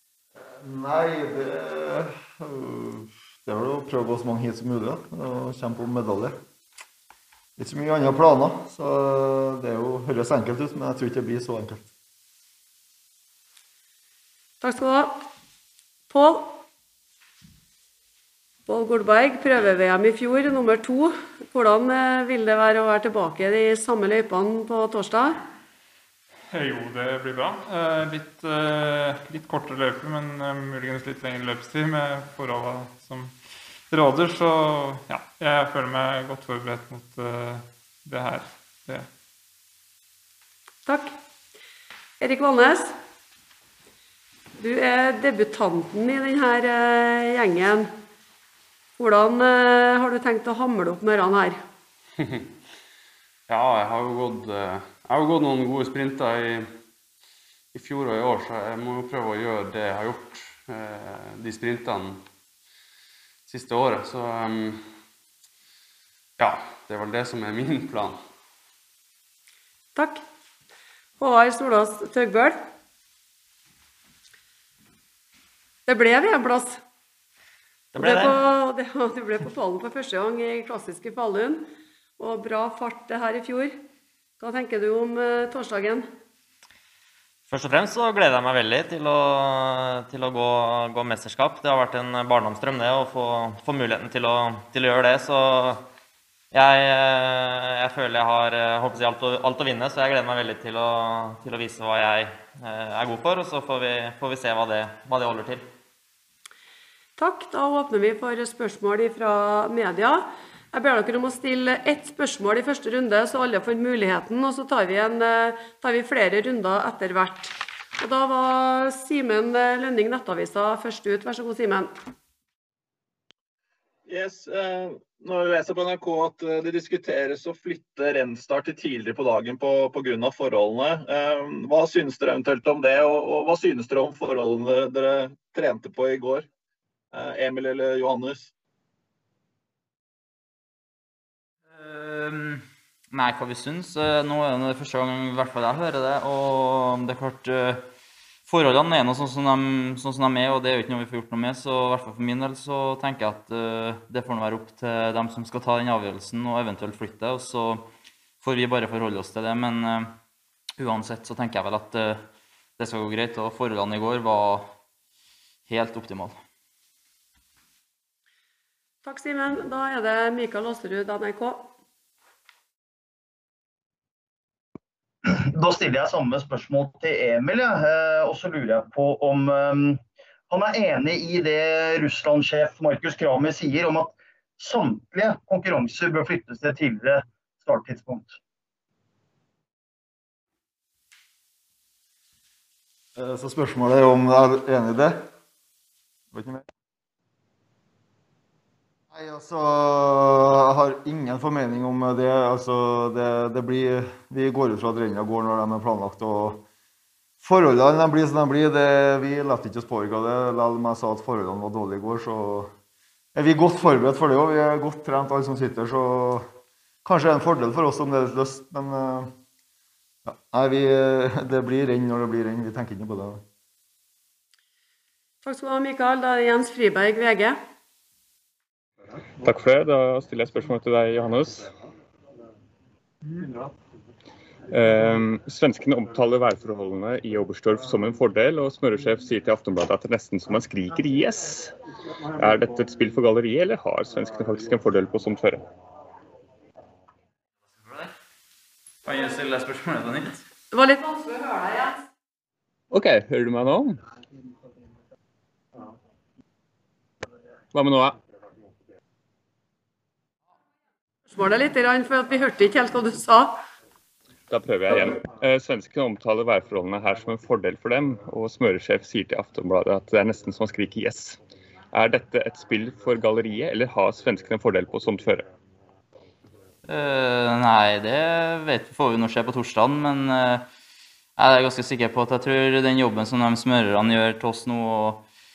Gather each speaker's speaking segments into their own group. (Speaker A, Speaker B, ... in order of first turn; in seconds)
Speaker A: 0.5-6.4, 7.6-11.8, 193.2-195.3, 196.3-196.6, 199.1-206.6, 207.4-212.7, 213.3-216.4, 217.0-219.3, 220.2-223.4
Speaker B: 14.6-15.2, 16.1-16.6, 18.7-25.4, 40.9-41.1, 42.2-42.9, 44.6-47.9, 49.0-51.6, 69.9-70.2, 71.2-72.6, 75.9-76.8, 78.0-81.6, 82.2-83.8, 84.4-86.0, 107.2-121.9, 169.0-171.7, 225.4-227.6, 250.7-252.0, 261.3-263.6
Speaker C: 26.5-33.3, 33.9-39.1
Speaker D: 52.2-52.5, 53.5-56.7, 57.7-62.2, 63.5-64.9, 66.4-68.2
Speaker E: 77.9-78.3, 87.5-95.8, 96.5-105.7
Speaker F: 124.0-136.5, 137.1-138.5
Speaker G: 141.7-147.8, 148.5-157.9, 158.4-160.1, 160.8-162.2, 162.8-164.7, 165.7-166.3, 247.8-248.1, 249.0-250.4, 276.9-280.6, 281.4-285.2
Speaker H: 175.2-188.4
Speaker I: 229.4-231.7, 234.7-241.7, 242.3-245.6, 252.9-254.0, 257.7-258.1, 264.5-271.4, 271.9-275.5